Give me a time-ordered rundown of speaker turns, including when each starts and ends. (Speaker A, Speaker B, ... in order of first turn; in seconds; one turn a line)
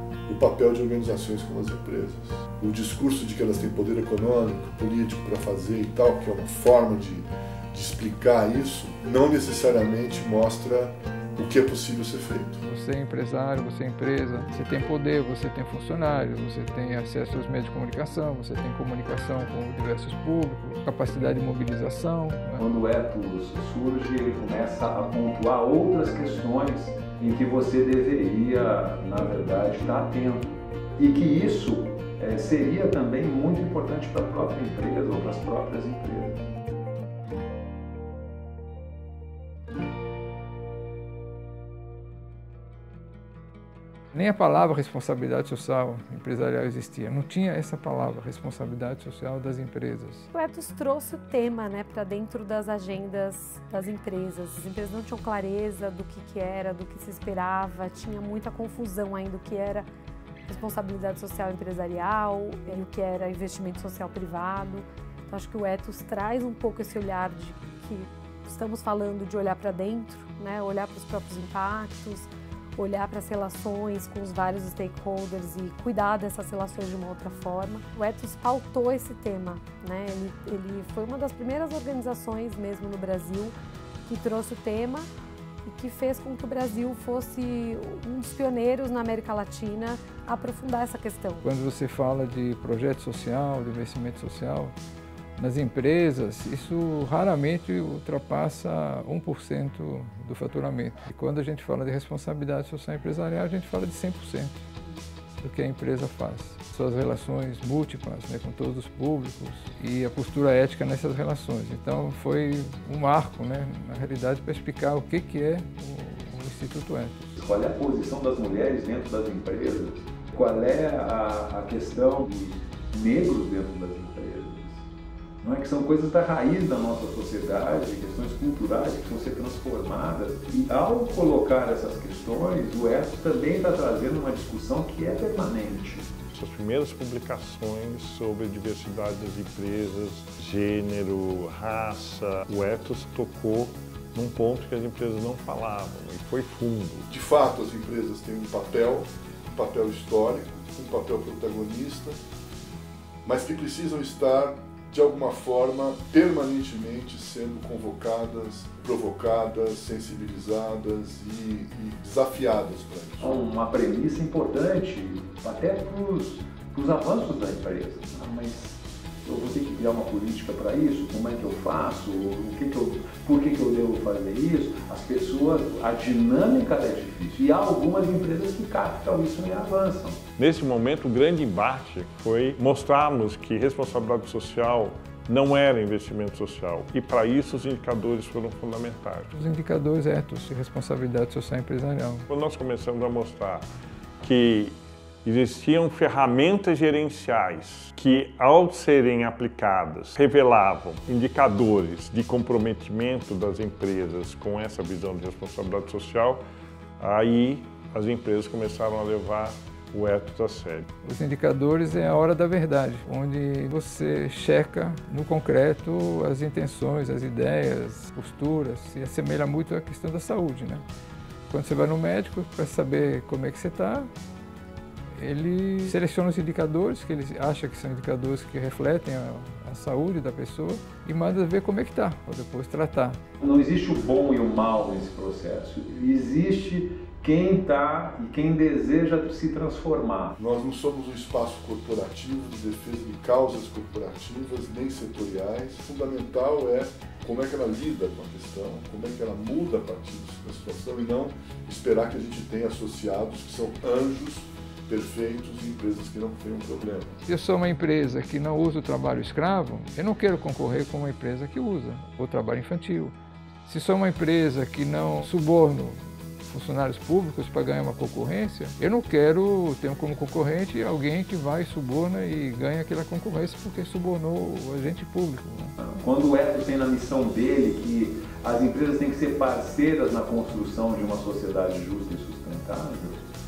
Speaker A: 0.3-12.6
Speaker B: 12.7-22.6
Speaker C: 22.6-36.4
Speaker B: 44.1-50.2
Speaker D: 50.3-59.9
Speaker D: 60.5-85.1
Speaker D: 85.6-91.4
Speaker B: 91.4-94.7
Speaker B: 95.4-104.5
Speaker B: 105.4-117.3
Speaker C: 117.3-124.8
Speaker C: 125.4-136.1
Speaker E: 136.3-147.1
Speaker A: 147.1-152.2
Speaker A: 153.2-163.4
Speaker C: 163.2-180.2
Speaker E: 180.4-189.3
Speaker B: 189.3-192.2
Speaker E: 192.3-193.7
Speaker E: 194.2-206.4
Speaker E: 207.0-210.8
Speaker B: 211.0-220.8
Speaker B: 221.5-224.1
Speaker B: 225.2-233.2
Speaker C: 233.4-240.3
Speaker A: 240.4-257.1
Speaker B: 257.3-263.1
Speaker B: 263.6-275.7
Speaker C: 275.8-283.2